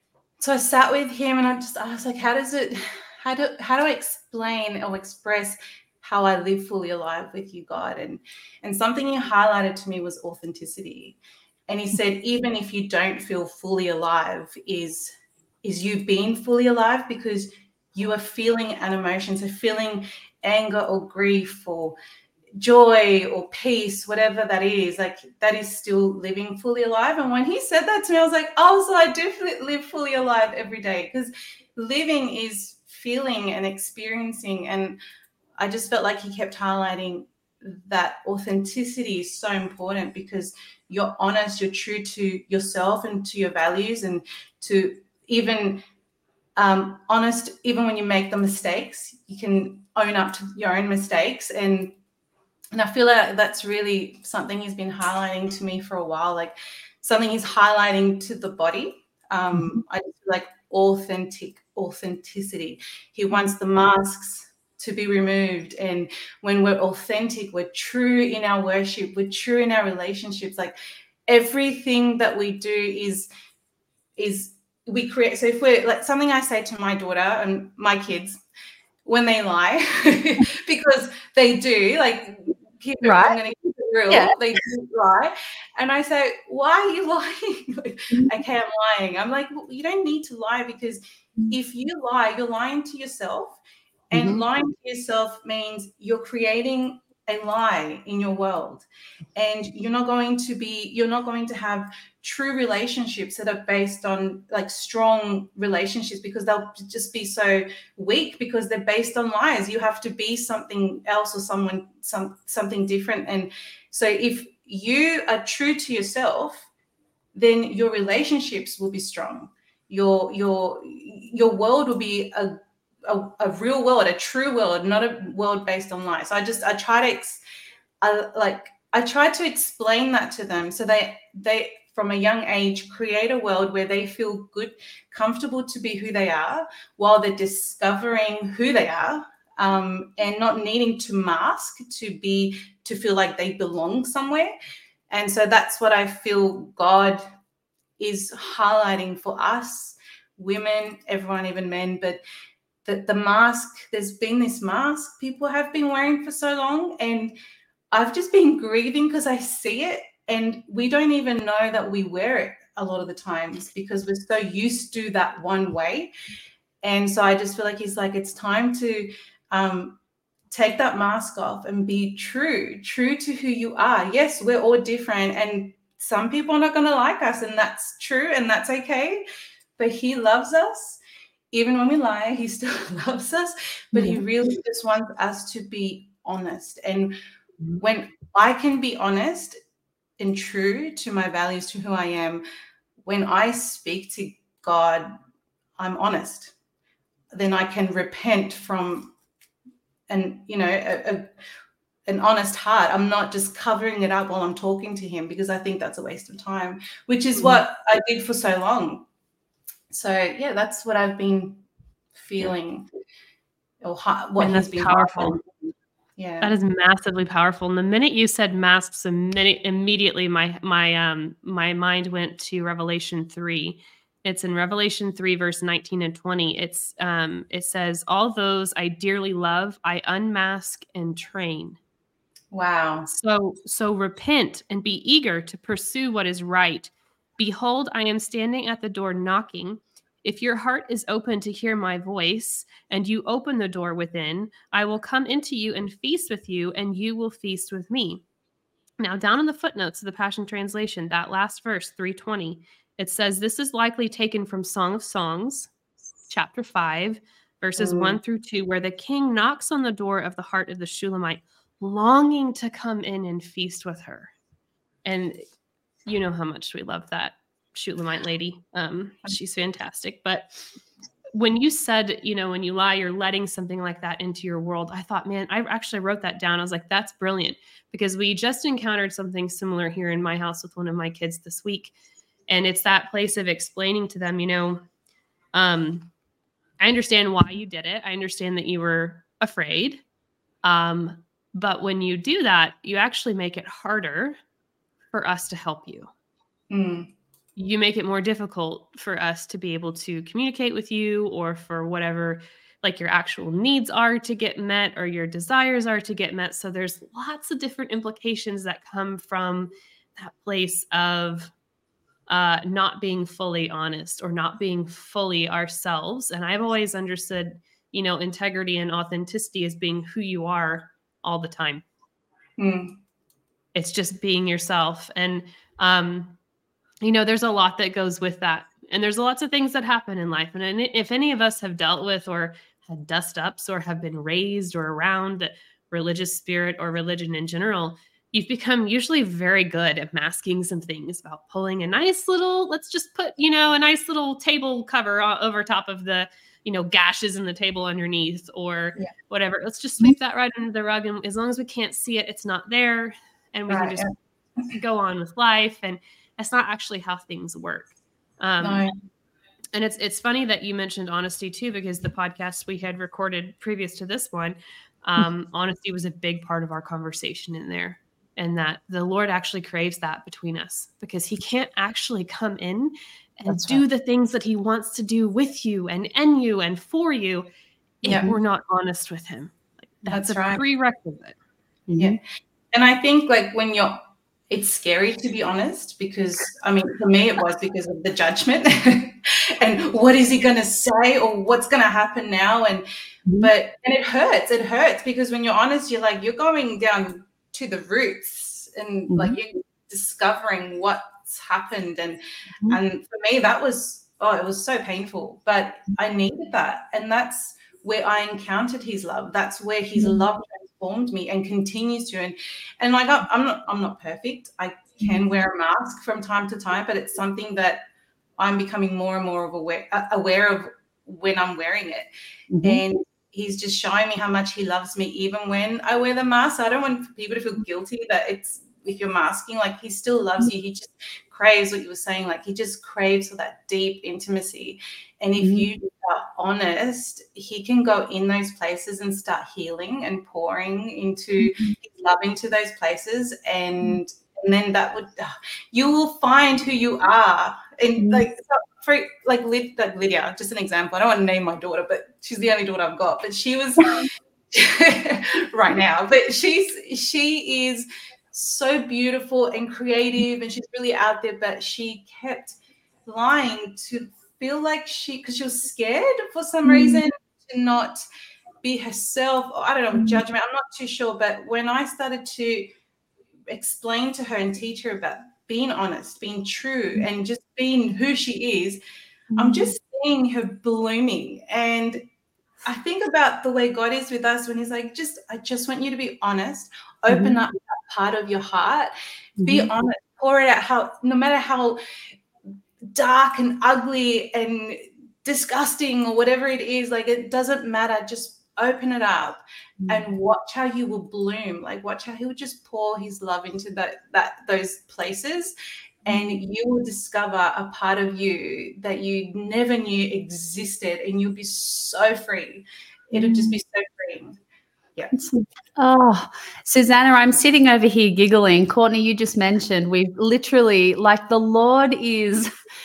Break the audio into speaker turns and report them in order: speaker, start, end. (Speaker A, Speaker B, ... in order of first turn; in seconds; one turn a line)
Speaker A: 0.4-22.0
Speaker A: 22.6-35.0
Speaker A: 35.6-45.8
Speaker A: 46.6-52.0
Speaker A: 52.7-73.3
Speaker A: 74.2-78.4
Speaker A: 79.0-93.6
Speaker B: 83.0-83.4
Speaker B: 84.1-84.4
Speaker A: 94.1-116.7
Speaker B: 94.1-94.4
Speaker A: 117.3-127.4
Speaker A: 128.0-144.6
Speaker A: 145.1-147.3
Speaker A: 148.0-152.2
Speaker A: 152.8-157.4
Speaker A: 157.9-166.1
Speaker A: 166.8-170.0
Speaker A: 170.5-179.2
Speaker A: 179.8-181.0
Speaker A: 181.5-187.2
Speaker B: 183.9-184.2
Speaker A: 187.8-189.6
Speaker A: 190.2-192.4
Speaker A: 193.0-195.1
Speaker A: 195.8-196.5
Speaker A: 197.3-199.1
Speaker A: 200.1-201.3
Speaker A: 202.1-209.1
Speaker A: 209.9-211.6
Speaker A: 212.2-212.9
Speaker A: 213.8-215.4
Speaker C: 214.4-215.4
Speaker A: 216.2-216.6
Speaker C: 216.4-231.8
Speaker A: 232.5-233.1
Speaker C: 233.1-248.2
Speaker C: 249.0-255.7
Speaker C: 256.3-264.3
Speaker A: 257.8-258.2
Speaker C: 265.1-265.4
Speaker C: 266.1-270.5
Speaker C: 271.3-281.9
Speaker C: 282.5-284.8
Speaker C: 285.5-286.1
Speaker C: 286.8-290.0
Speaker C: 290.6-294.4
Speaker C: 295.1-296.1
Speaker A: 296.7-297.1
Speaker C: 297.6-311.5
Speaker C: 312.3-321.8
Speaker A: 322.6-323.0
Speaker C: 323.8-326.4
Speaker C: 327.0-354.1
Speaker A: 353.7-354.6
Speaker C: 354.7-358.9
Speaker A: 358.6-358.9
Speaker C: 359.7-377.5
Speaker B: 373.5-373.8
Speaker C: 378.1-381.4
Speaker B: 378.1-378.4
Speaker A: 380.1-380.6
Speaker B: 381.9-382.2
Speaker A: 382.7-392.9
Speaker A: 393.4-417.8
Speaker B: 399.1-399.4
Speaker B: 410.0-410.3
Speaker A: 418.4-422.1
Speaker B: 422.5-422.8
Speaker A: 422.6-468.0
Speaker B: 435.4-435.7
Speaker B: 441.4-441.8
Speaker B: 448.0-448.3
Speaker B: 466.6-467.0
Speaker A: 468.6-472.7
Speaker B: 469.9-470.2
Speaker A: 473.5-478.8
Speaker B: 479.3-479.7
Speaker A: 479.4-482.0
Speaker A: 482.6-491.8
Speaker B: 487.1-487.4
Speaker B: 489.4-489.7
Speaker A: 492.8-505.5
Speaker A: 506.1-514.4
Speaker B: 506.1-506.4
Speaker B: 513.1-513.6
Speaker B: 515.1-522.5